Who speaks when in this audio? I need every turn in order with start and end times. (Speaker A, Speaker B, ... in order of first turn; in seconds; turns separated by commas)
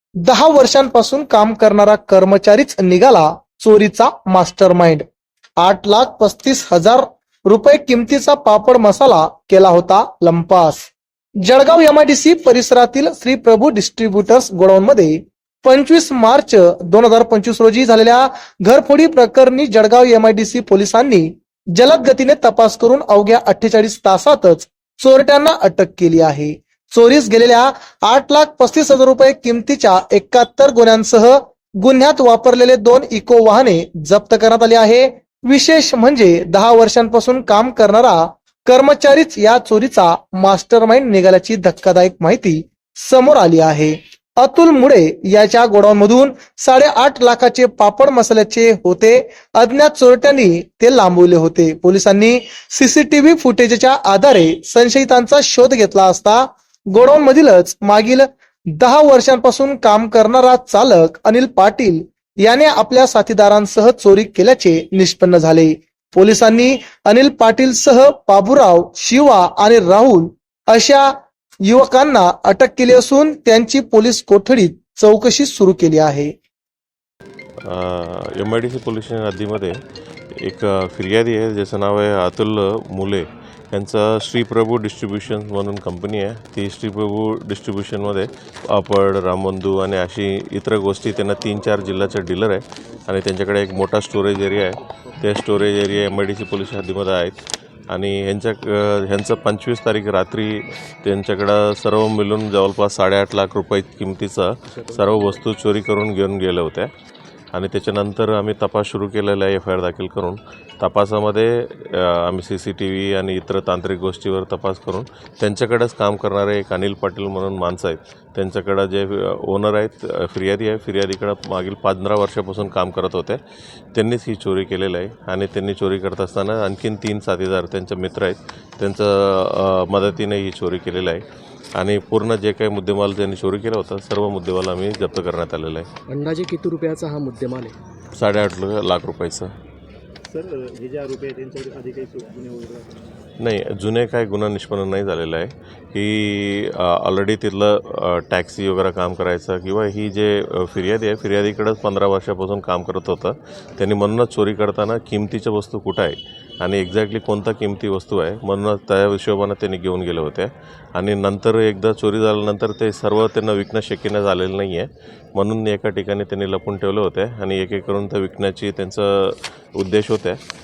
Speaker A: 0.2-5.0, Speaker A: 5.6-10.9, Speaker A: 11.4-71.1, Speaker A: 71.7-76.3, Speaker B: 77.6-79.8, Speaker B: 80.3-106.9, Speaker C: 104.7-105.3, Speaker B: 107.5-123.4, Speaker B: 123.9-131.2, Speaker B: 131.8-135.9, Speaker C: 136.1-137.7, Speaker B: 138.2-139.5, Speaker D: 140.3-143.1, Speaker B: 143.4-170.4